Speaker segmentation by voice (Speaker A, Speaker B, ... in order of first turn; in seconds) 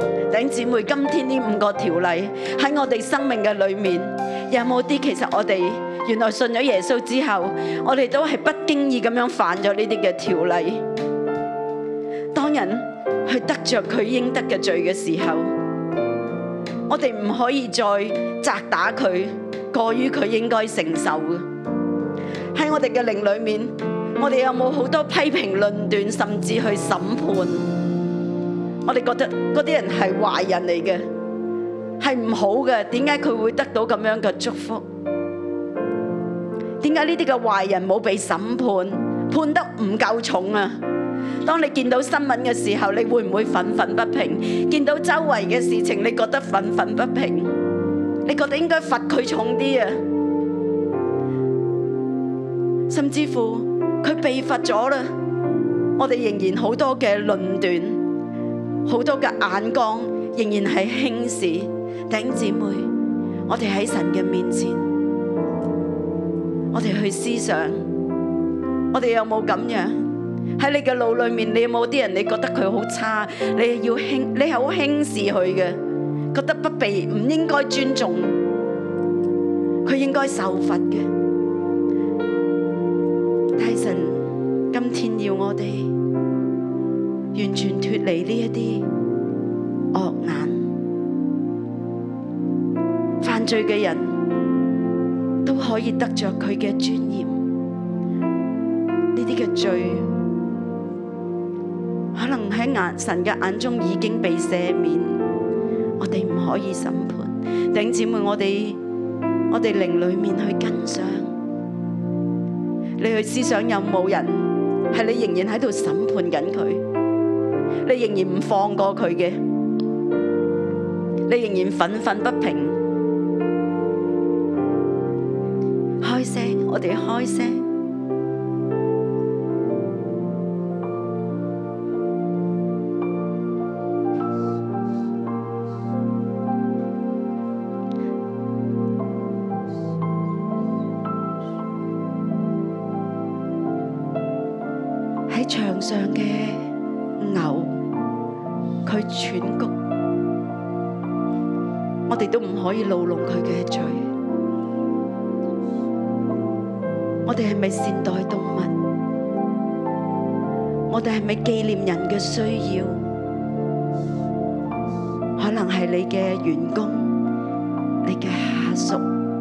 Speaker A: 0.3-10.8, 12.3-15.5, 16.9-21.5, 22.5-27.7, 28.9-31.1, 32.0-34.9, 36.8-40.8, 41.4-47.5, 48.3-50.0, 52.9-55.1, 56.0-58.0, 58.9-62.9, 63.5-64.9, 66.7-67.8, 68.9-70.0, 70.6-75.8, 76.3-78.4, 79.8-81.1, 83.6-85.9, 87.3-88.9, 89.9-90.7, 93.2-94.2, 95.4-97.4, 99.1-100.1, 102.1-105.2, 106.0-108.8, 109.5-111.3, 113.0-116.8, 117.8-119.4, 121.3-122.8, 126.0-127.6, 145.3-147.8, 148.8-149.7, 152.1-154.1, 157.2-158.8, 160.9-163.0, 165.4-167.2, 168.0-169.0